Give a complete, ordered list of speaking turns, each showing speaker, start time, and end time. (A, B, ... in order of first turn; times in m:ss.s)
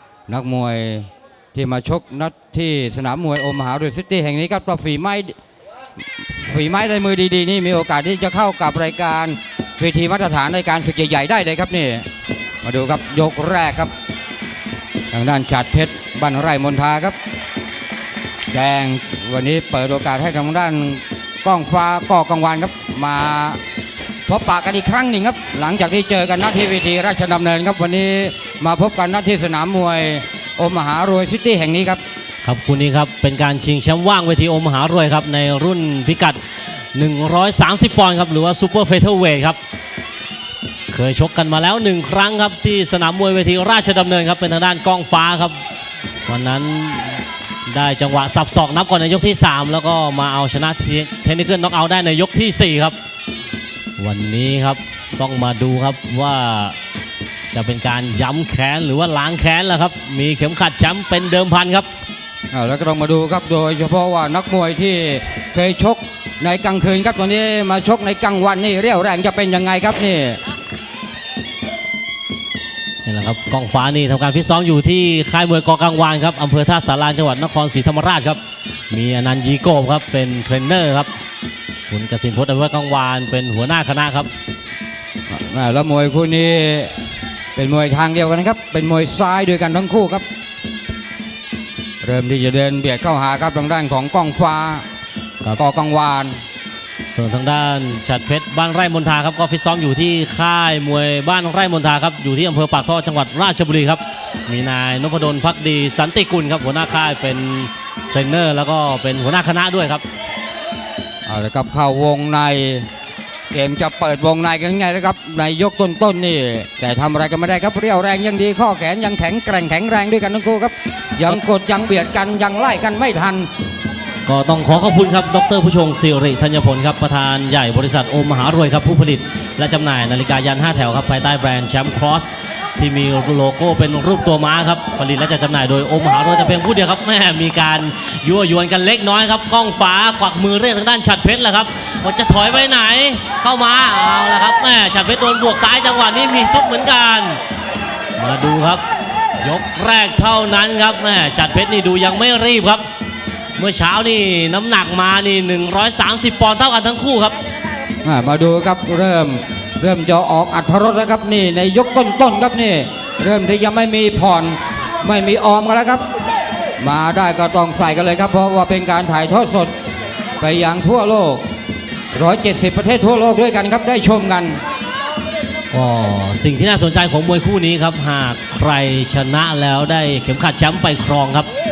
0:00.3-0:05.4 A
0:06.2-0:12.1 A
0:12.6-0:13.9 A
0:15.1-0:17.2 A
0:18.5-0:23.6 A
0:24.3-0:32.0 A
0:32.4-0:36.4 B
0:37.0-0:39.6 B
0:40.9-0:45.6 B
0:46.3-0:53.0 B
0:54.0-0:56.8 B
0:57.5-1:01.9 B
1:02.5-1:10.4 A
1:13.0-1:21.1 B
1:21.9-1:24.3 B
1:25.3-1:26.9 A
1:27.6-1:30.2 A
1:32.0-1:34.9 A
1:35.4-1:35.7 B
1:35.6-1:36.4 A
1:37.0-1:50.0 B
1:51.3-1:52.9 A
1:53.5-2:03.5 A
2:04.3-2:27.4 B
2:28.2-2:28.8 B
2:29.4-2:32.8 B
2:33.6-2:37.4 B
2:38.0-2:46.0 A
2:46.8-2:49.7 A
2:50.4-2:51.4 A
2:52.2-2:54.6 A
2:55.7-3:01.5 B